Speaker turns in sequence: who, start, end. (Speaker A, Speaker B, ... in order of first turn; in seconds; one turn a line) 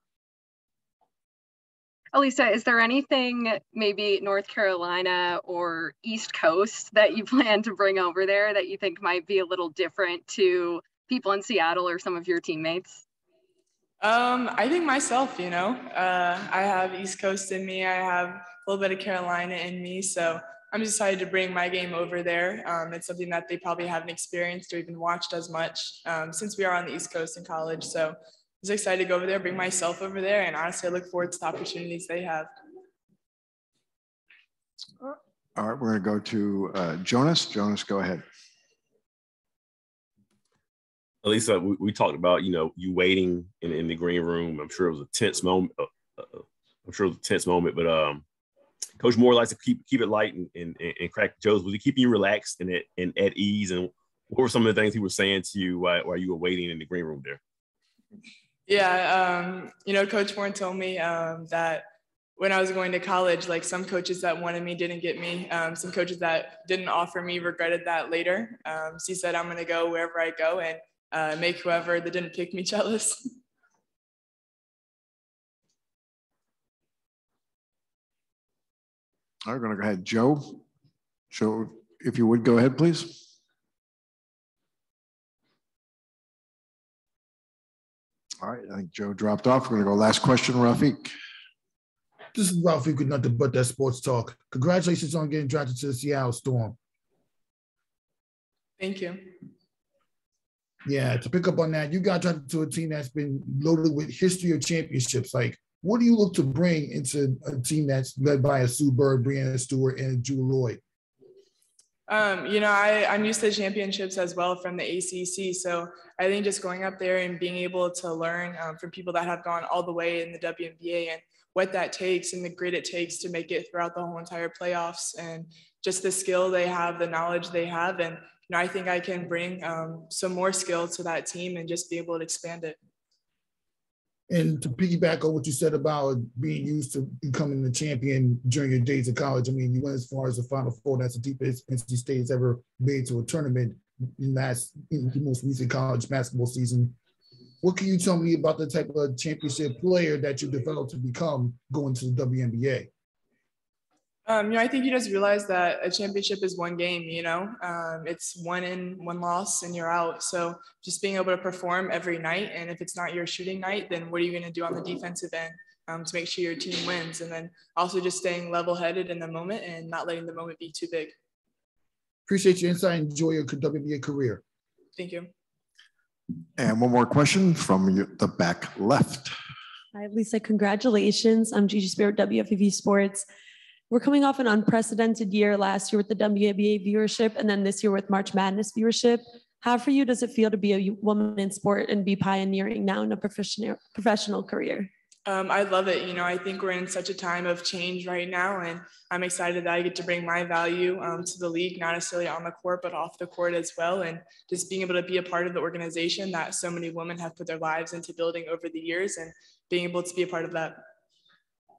Speaker A: 2.1-13.0
Speaker B: 14.1-32.5
Speaker C: 35.0-38.2
Speaker D: 41.2-48.2
Speaker D: 49.0-57.4
Speaker B: 58.7-61.8
Speaker B: 62.4-73.2
Speaker C: 79.5-80.6
Speaker C: 81.3-83.2
Speaker C: 88.4-91.1
Speaker E: 92.3-96.8
Speaker B: 98.8-99.1
Speaker E: 100.8-110.8
Speaker B: 112.1-132.7
Speaker E: 134.3-146.9
Speaker E: 147.6-152.9
Speaker B: 154.3-171.1
Speaker E: 172.3-174.4
Speaker C: 176.6-179.3
Speaker F: 179.9-183.2
Speaker F: 183.9-194.9
Speaker B: 195.3-210.7